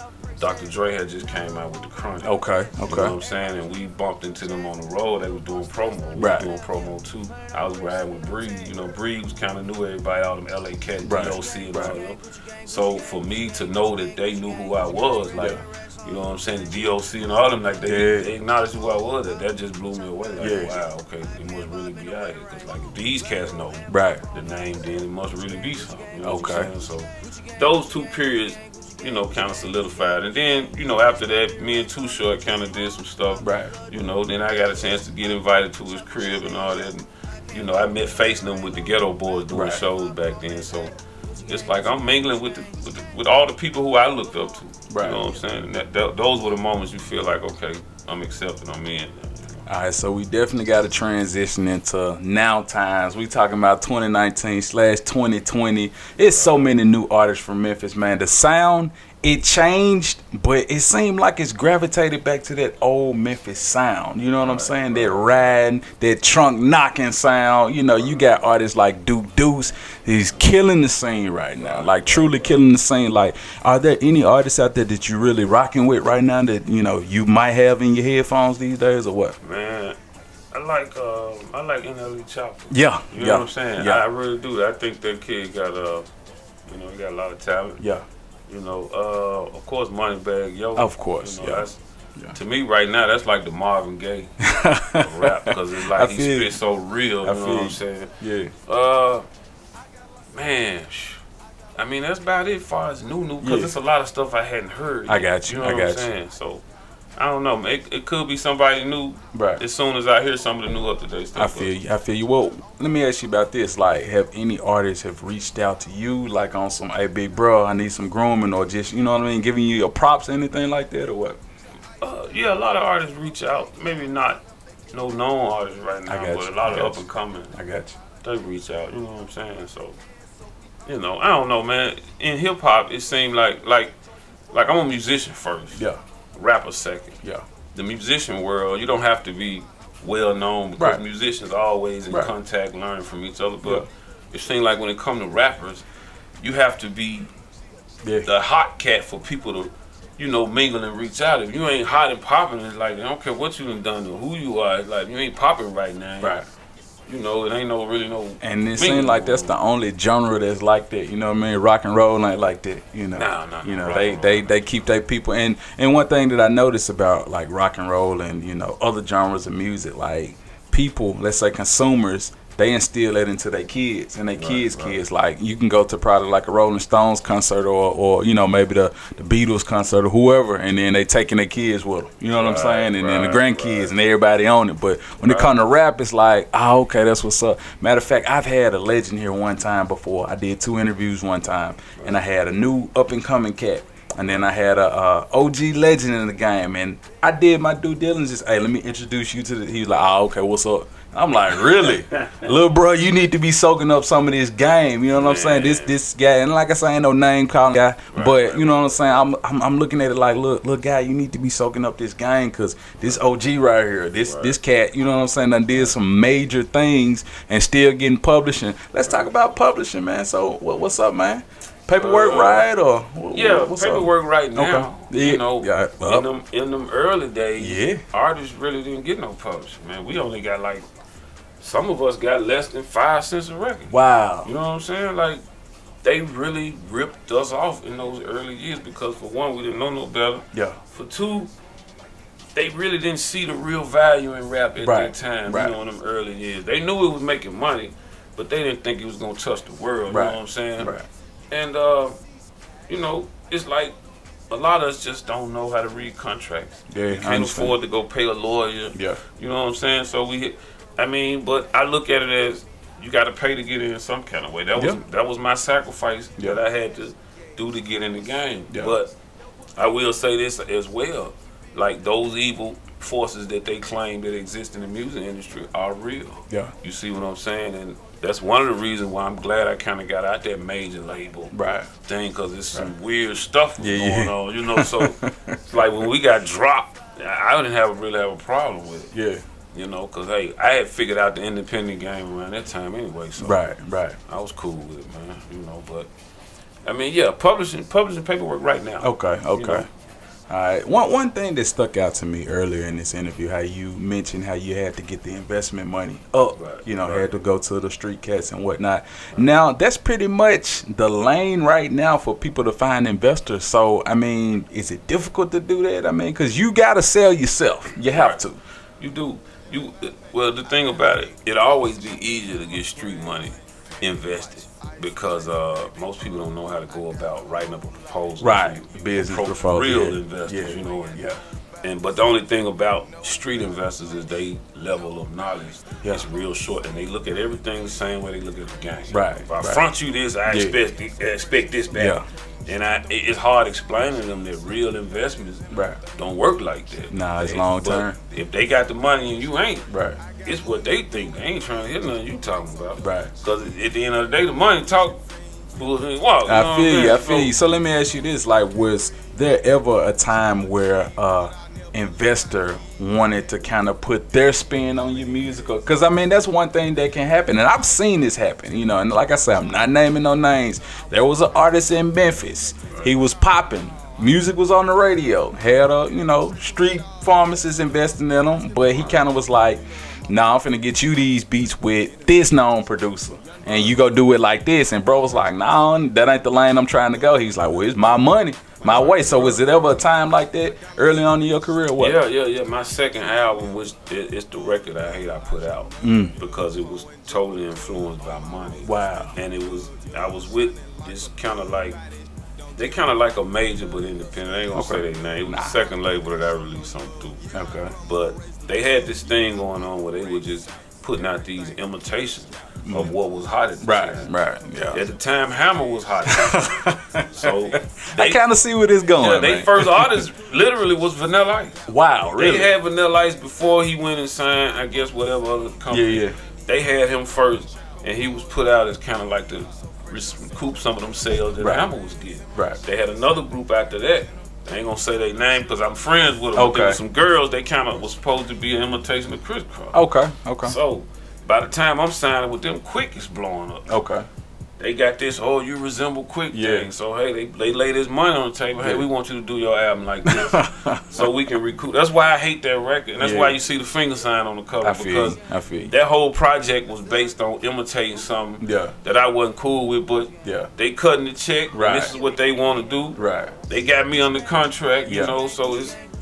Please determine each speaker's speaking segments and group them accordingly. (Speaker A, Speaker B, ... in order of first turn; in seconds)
Speaker A: 0.4-2.3, 2.9-40.9, 41.5-49.6, 56.2-56.6, 64.4-65.5, 71.6-72.6, 79.4-80.0, 80.5-86.0, 86.7-87.8, 88.5-91.8, 92.3-94.3, 94.9-98.1, 98.6-99.2, 100.3-101.2, 101.8-106.6, 107.2-111.7, 122.0-124.4, 124.9-127.6, 128.2-130.0, 130.8-133.9, 134.5-135.8, 136.3-137.2, 137.7-145.8, 146.4-147.3, 148.2-156.4, 157.1-159.5, 163.1-164.5, 174.3-175.0, 182.3-183.9, 185.2-185.5, 201.5-202.5, 205.2-205.9, 208.1-209.2, 214.2-214.6, 221.9-222.7, 223.3-230.8, 231.6-233.9, 234.4-235.4, 236.0-241.5, 242.5-251.0, 251.5-252.1, 252.9-253.9, 254.5-269.1, 269.8-289.1, 289.7-293.7, 294.3-296.1, 296.8-299.9, 306.6-307.3, 318.1-318.4, 319.0-331.2, 331.8-349.9, 350.4-355.2, 355.7-357.5, 383.6-384.0, 388.8-389.8, 392.0-402.0, 402.8-407.4, 408.1-414.3, 414.9-418.4, 419.2-421.8, 422.4-440.0, 440.6-443.9, 444.8-455.4, 455.9-466.0
Speaker B: 2.2-3.1, 6.2-6.5, 11.0-11.9, 17.8-18.3, 20.4-20.7, 23.9-24.2, 26.2-26.7, 33.4-33.7, 39.5-39.8, 44.9-45.2, 49.7-79.3, 82.7-84.0, 90.8-91.6, 94.4-96.5, 97.2-98.5, 103.4-103.7, 105.1-106.1, 109.3-109.6, 111.3-121.4, 126.1-127.0, 127.5-127.9, 135.7-136.0, 158.4-226.3, 227.6-228.0, 233.9-234.5, 240.5-240.8, 244.8-245.7, 250.1-251.1, 256.9-257.7, 258.9-259.2, 281.5-281.9, 283.8-285.8, 289.1-289.4, 293.4-294.2, 299.0-299.9, 300.5-318.6, 328.4-331.4, 339.1-339.8, 340.4-340.8, 341.9-342.2, 345.7-346.0, 347.1-348.1, 349.9-350.2, 353.0-353.3, 356.4-392.2, 396.0-396.3, 398.8-399.3, 404.7-405.7, 407.5-407.9, 412.8-413.1, 413.8-415.0, 416.3-420.2, 421.9-422.7, 425.9-426.3, 431.6-431.9, 436.6-437.0, 439.9-440.8, 443.9-444.2, 446.5-446.9, 448.8-449.1, 450.2-451.2, 453.2-453.6, 454.8-455.9, 458.6-458.9, 460.4-460.7, 461.7-462.1, 463.2-463.5, 465.1-465.3